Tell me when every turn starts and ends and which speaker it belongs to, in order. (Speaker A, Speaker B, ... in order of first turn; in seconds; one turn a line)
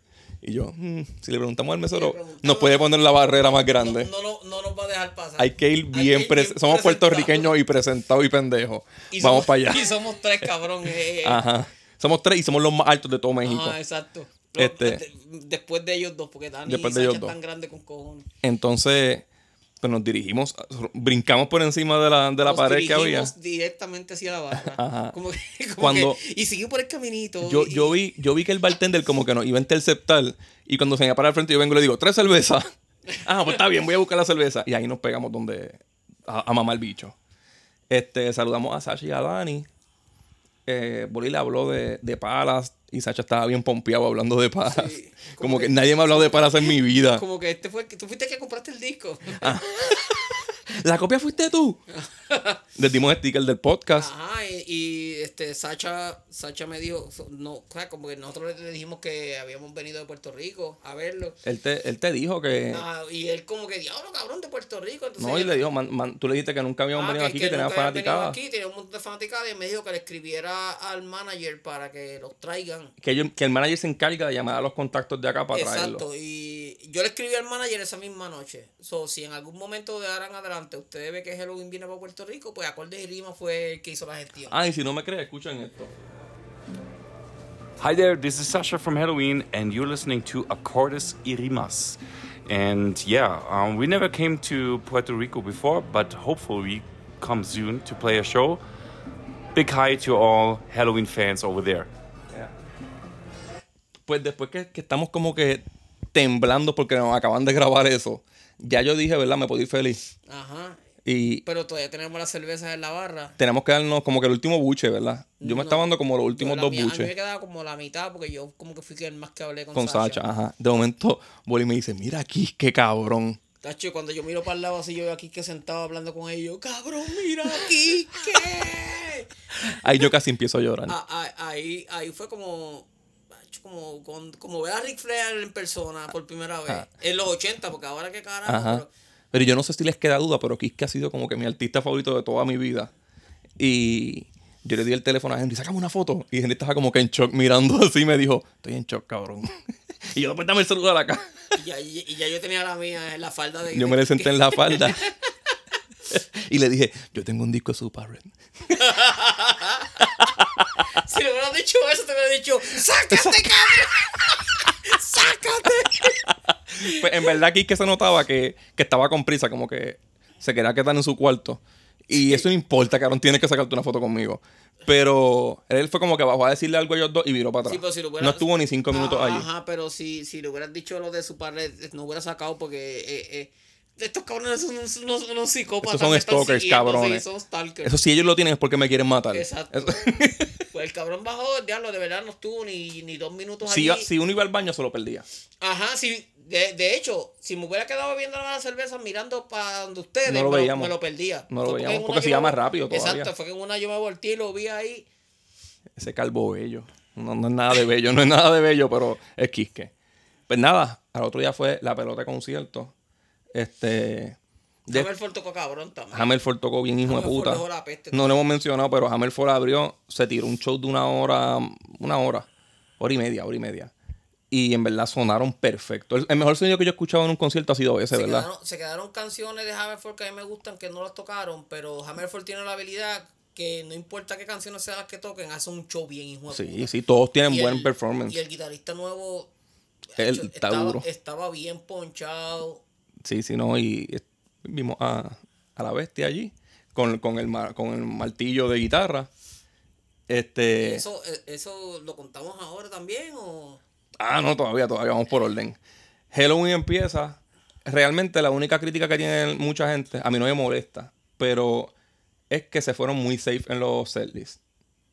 Speaker A: 0.4-4.1
Speaker B: 1.9-7.5
Speaker A: 5.4-9.9
Speaker B: 9.1-11.4
Speaker A: 11.2-13.8
Speaker B: 13.4-18.3
Speaker A: 14.6-15.0
Speaker A: 16.6-17.3
Speaker A: 18.4-19.2
Speaker A: 19.8-23.3
Speaker B: 22.4-28.0
Speaker A: 24.5-25.1
Speaker A: 25.8-26.2
Speaker A: 27.4-32.7
Speaker A: 33.2-37.1
Speaker A: 37.9-39.7
Speaker A: 40.6-47.2
Speaker B: 44.6-49.6
Speaker A: 49.4-51.8
Speaker B: 51.9-52.6
Speaker A: 52.8-54.1
Speaker B: 53.9-61.4
Speaker A: 61.4-62.8
Speaker B: 62.7-65.7
Speaker A: 65.2-68.4
Speaker B: 66.9-72.9
Speaker A: 73.0-76.0
Speaker B: 75.5-84.6
Speaker A: 84.5-85.9
Speaker C: 87.8-98.6
Speaker C: 99.5-101.9
Speaker A: 104.1-110.0
Speaker B: 110.3-110.8
Speaker A: 111.0-111.4
Speaker B: 111.4-113.4
Speaker A: 113.4-117.1
Speaker B: 115.4-120.2
Speaker A: 119.7-123.4
Speaker B: 123.6-129.3
Speaker A: 129.6-130.9
Speaker B: 130.9-138.9
Speaker A: 138.4-142.9
Speaker A: 143.6-151.5
Speaker B: 151.5-155.1
Speaker A: 153.7-155.1
Speaker A: 156.1-158.3
Speaker B: 158.7-160.1
Speaker A: 160.2-160.4
Speaker B: 160.9-166.2
Speaker B: 166.8-167.3
Speaker A: 166.8-179.5
Speaker B: 172.2-172.4
Speaker B: 177.6-188.1
Speaker A: 185.8-187.2
Speaker A: 187.8-190.6
Speaker B: 189.3-194.1
Speaker A: 193.6-195.2
Speaker B: 195.6-205.1
Speaker A: 200.2-200.9
Speaker A: 201.5-203.3
Speaker A: 205.9-209.9
Speaker A: 210.5-212.9
Speaker A: 213.5-215.1
Speaker B: 214.9-216.4
Speaker A: 216.1-222.5
Speaker B: 217.0-218.4
Speaker A: 223.0-223.9
Speaker A: 224.5-228.5
Speaker B: 228.1-236.9
Speaker A: 236.5-238.4
Speaker B: 237.4-239.5
Speaker B: 240.2-242.8
Speaker A: 240.2-241.0
Speaker A: 243.2-249.3
Speaker A: 250.3-251.0
Speaker B: 250.8-253.8
Speaker A: 254.2-255.8
Speaker A: 256.3-261.9
Speaker A: 262.5-264.6